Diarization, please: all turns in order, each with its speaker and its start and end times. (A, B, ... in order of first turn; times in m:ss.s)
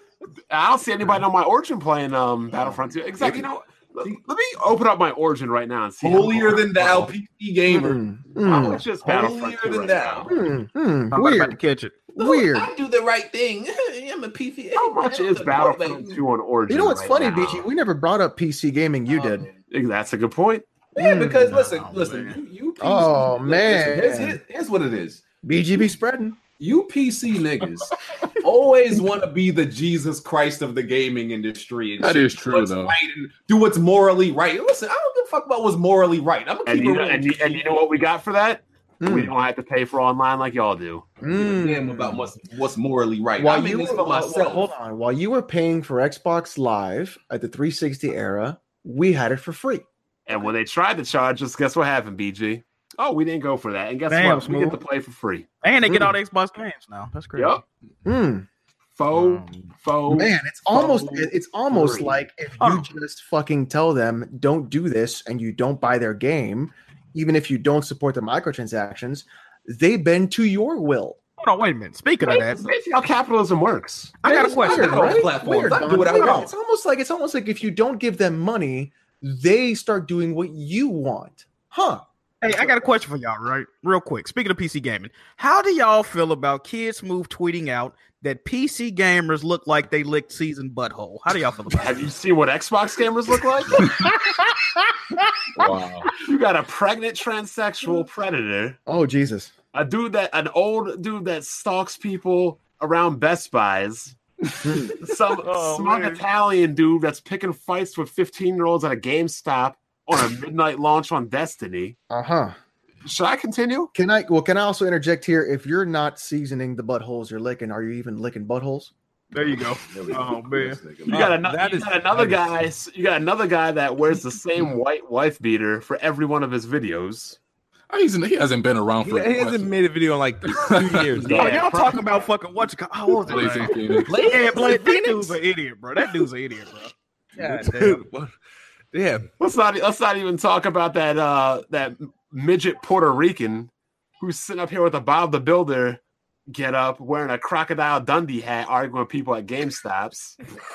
0:00.5-0:07.1 A
0:03.2-0:03.5 B
0:06.0-0:08.0 B
0:07.7-0:08.8 C
0:08.4-0:10.3 A
0:08.6-0:10.3 B
0:10.3-0:11.6 C
0:11.1-0:12.1 D
0:12.1-0:12.7 C
0:12.2-0:16.2 B
0:14.7-0:17.6 A
0:16.7-0:19.5 C
0:19.1-0:19.5 B
0:19.7-0:20.7 A
0:20.9-0:25.2 B
0:21.0-0:21.6 C
0:21.4-0:22.4 D
0:22.8-0:24.4 C
0:25.4-0:26.4 C
0:26.6-0:37.8 B
0:32.0-0:32.9 E
0:36.6-0:41.1 A
0:39.0-0:39.3 C
0:41.2-0:42.3 C
0:41.2-0:44.7 B
0:43.4-0:49.8 C
0:50.2-0:55.5 A
0:54.1-0:54.8 D
0:55.6-0:57.6 D
0:55.8-0:56.1 C
0:57.3-0:57.6 A
0:58.0-0:58.4 C
0:59.0-1:02.2 A
0:59.1-0:59.7 D
1:00.1-1:11.2 C
1:02.6-1:02.9 D
1:11.4-1:12.6 D
1:12.2-1:14.2 A
1:14.2-1:15.3 D
1:14.2-1:16.5 B
1:14.2-1:22.0 C
1:22.4-1:32.1 D
1:31.7-1:33.9 A
1:33.9-1:34.6 C
1:36.1-1:38.8 A
1:38.8-1:39.5 C
1:39.7-1:44.2 A
1:44.6-1:45.0 C
1:44.8-1:52.0 A
1:45.4-1:46.2 D
1:52.1-1:52.5 C
1:53.0-1:53.9 A
1:53.9-1:58.9 C
1:59.3-2:00.8 D
1:59.4-2:01.4 B
2:00.1-2:00.4 F
2:01.1-2:02.5 F
2:01.1-2:07.4 A
2:07.9-2:09.7 E
2:09.0-2:11.8 F
2:10.5-2:11.4 E
2:11.2-2:12.0 A
2:11.2-2:18.0 D
2:13.2-2:14.3 E
2:14.0-2:15.3 F
2:17.3-2:18.3 F
2:18.9-2:19.3 F
2:19.4-2:30.4 A